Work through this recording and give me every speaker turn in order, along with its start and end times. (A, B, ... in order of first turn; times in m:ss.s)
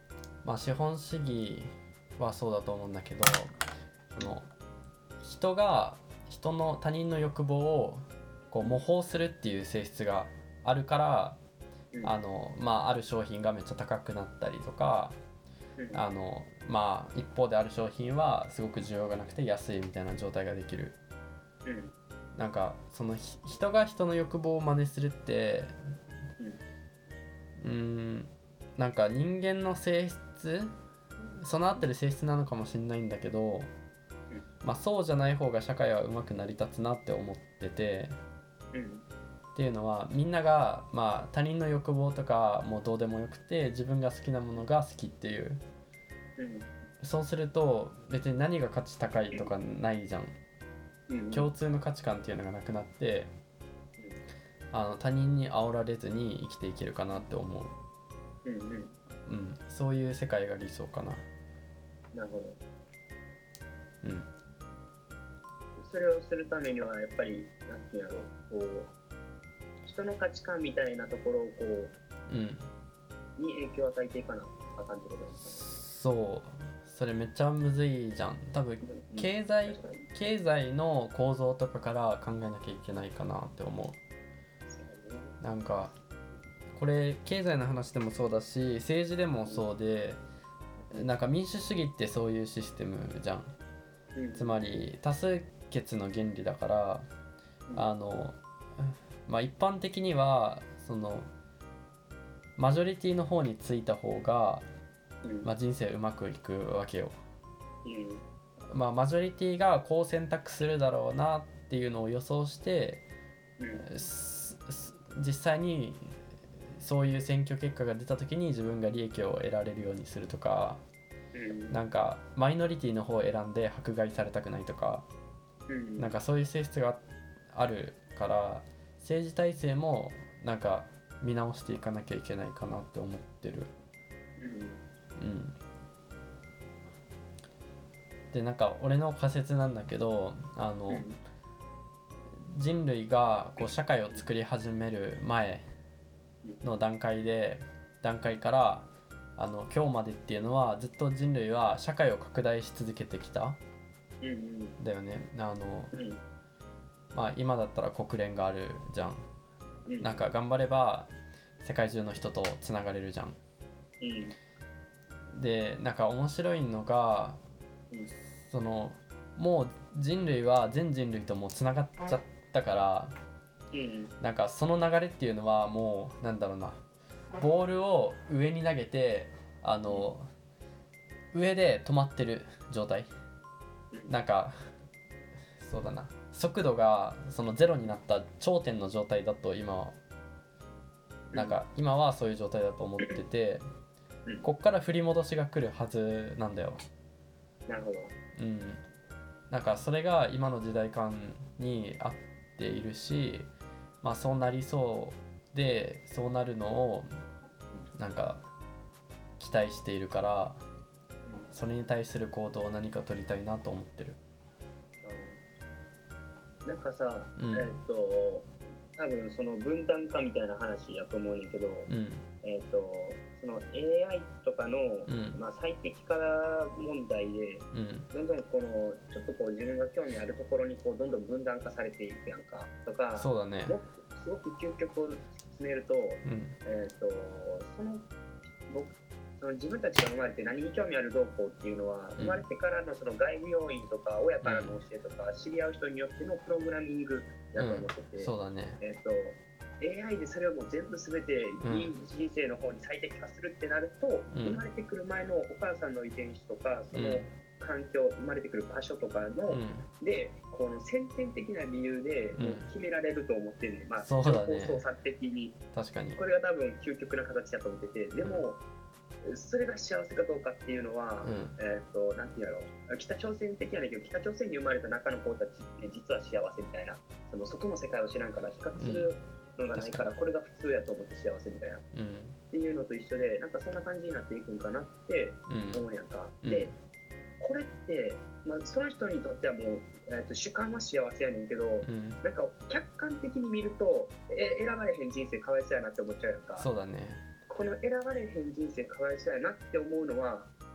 0:00.4-0:03.5 A
0:04.1-0:04.5 A
0:05.2-0:11.4 A
0:12.0-0:15.2 A
0:15.8-0:16.0 B
0:15.9-0:21.0 A
0:21.6-0:21.9 B
0:22.4-0:25.8 A
0:27.6-0:30.7 A
0:31.4-0:33.7 A
0:34.6-0:38.2 A
0:38.7-0:39.0 B
0:39.6-0:45.6 A
0:46.4-0:46.7 B
0:47.0-0:50.3 A
0:51.1-0:51.5 B
0:51.3-0:53.3 A
0:54.7-0:57.8 A
0:58.4-0:58.9 B
0:59.3-1:01.2 A
1:02.1-1:02.6 B
1:04.0-1:04.3 A
1:05.8-1:08.9 B
1:09.8-1:12.0 B
1:12.3-1:12.7 A
1:13.4-1:15.7 B
1:15.6-1:24.0 A
1:18.8-1:20.1 B
1:24.7-1:25.4 B
1:25.4-1:25.9 A
1:26.8-1:30.2 A
1:30.9-1:33.5 A
1:34.2-1:34.6 B
1:34.4-1:37.0 A
1:37.8-1:41.3 A
1:42.6-1:44.7 A
1:45.2-1:45.5 B
1:45.4-1:47.2 A
1:47.8-1:48.2 B
1:48.7-1:53.0 A
1:53.6-1:53.9 B
1:53.8-1:56.2 A
1:56.7-2:00.8 A
2:01.3-2:01.8 B
2:01.7-2:05.1 A
2:05.7-2:06.2 B
2:06.0-2:13.7 A
2:14.4-2:14.8 B
2:15.2-2:15.6 A
2:18.3-2:21.1 A
2:20.9-2:21.2 B
2:22.5-2:25.6 A
2:26.6-2:33.6 A
2:34.2-2:34.8 B
2:34.8-2:35.9 A
2:35.9-2:36.2 B
2:37.1-2:39.3 A
2:39.9-2:40.4 B
2:40.0-2:43.4 A
2:44.0-2:44.4 B
2:45.3-2:47.4 A
2:48.5-2:53.2 A
2:53.7-2:54.1 B
2:54.2-2:56.8 A
2:57.4-3:00.3 A
3:01.3-3:03.1 A
3:04.1-3:04.6 A
3:05.6-3:10.0 A
3:11.3-3:11.6 B
3:11.3-3:13.6 A
3:14.4-3:16.8 A
3:17.7-3:18.1 B
3:18.4-3:18.8 A
3:19.5-3:23.5 A
3:24.0-3:27.1 A
3:28.0-3:28.4 A
3:29.4-3:30.6 A
3:31.5-3:34.2 A
3:35.0-3:35.4 B
3:36.6-3:41.9 B
3:37.4-3:37.7 A
3:41.9-3:42.2 A
3:42.4-3:58.1 B
3:45.1-3:45.4 A
3:47.7-3:48.1 A
3:53.2-3:53.8 A
3:56.2-3:56.6 A
3:58.7-4:25.6 B
4:02.2-4:02.4 A
4:04.4-4:04.8 A
4:07.6-4:08.8 A
4:11.6-4:11.9 A
4:14.3-4:14.6 A
4:16.9-4:17.3 A
4:19.5-4:19.9 A
4:22.3-4:22.7 A
4:24.0-4:24.8 A
4:25.7-4:26.2 A
4:26.2-4:28.6 B
4:29.2-4:41.8 B
4:31.2-4:31.6 A
4:38.8-4:39.1 A
4:39.8-4:40.0 A
4:41.9-4:42.4 A
4:42.5-4:46.8 B
4:45.5-4:45.8 A
4:46.4-4:46.7 A
4:47.4-4:56.7 B
4:51.8-4:52.2 A
4:56.6-4:57.2 A
4:57.5-5:00.5 B